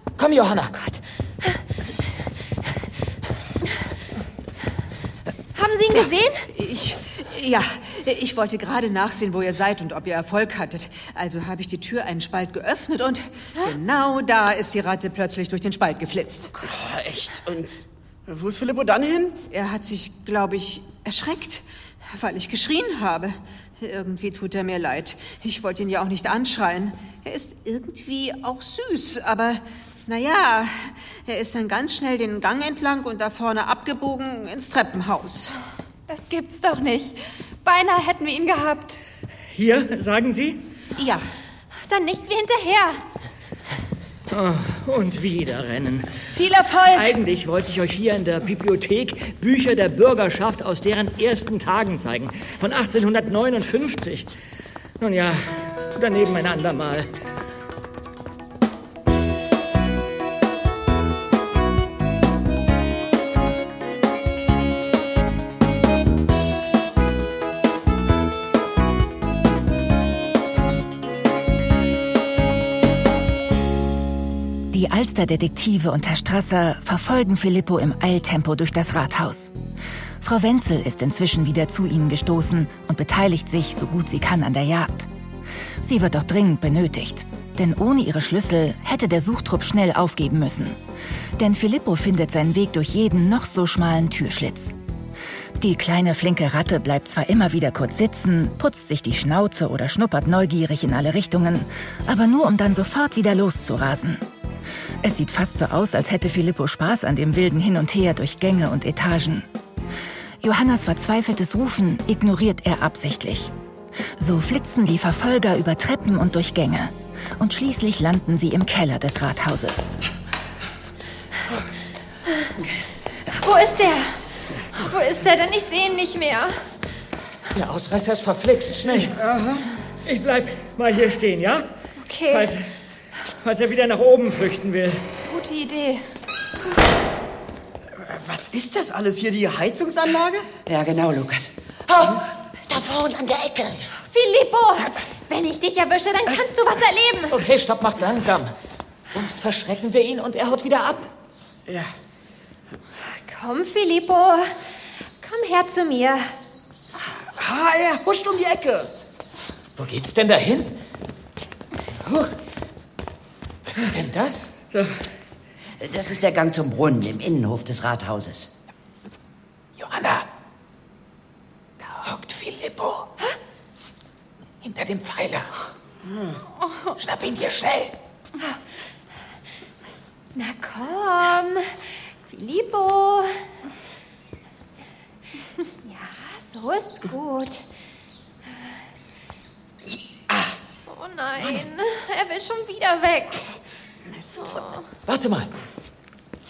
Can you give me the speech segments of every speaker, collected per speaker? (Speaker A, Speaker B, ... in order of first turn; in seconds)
Speaker A: 0.2-0.7, 127.5-129.1, 147.3-148.5, 149.1-151.1, 159.8-160.8, 163.6-164.5, 169.8-170.3, 171.8-173.1, 174.6-175.5, 176.9-177.9, 195.1-195.5
Speaker B: 0.7-1.6, 5.5-6.5, 41.9-43.0, 123.3-124.2, 124.7-126.5, 132.0-132.5, 144.1-147.3, 153.2-154.5, 155.2-156.3, 180.3-181.7, 182.2-183.3, 185.8-187.6, 190.9-193.5, 194.4-194.8
Speaker C: 6.5-16.5, 19.5-35.6, 41.0-41.2, 46.3-47.1
Speaker D: 16.6-19.4, 129.1-129.6, 138.0-140.5, 157.3-158.9
Speaker E: 36.1-39.0, 135.2-136.1
Speaker F: 39.5-40.6, 44.3-46.2, 46.9-54.3, 55.0-57.1, 130.0-131.6, 132.3-132.7, 133.4-135.0
Speaker G: 74.7-79.5, 80.2-85.1, 85.8-90.8, 91.4-94.7, 95.6-104.2, 105.0-109.5, 110.4-113.5, 114.2-119.9
Speaker H: 140.7-143.9, 165.8-168.5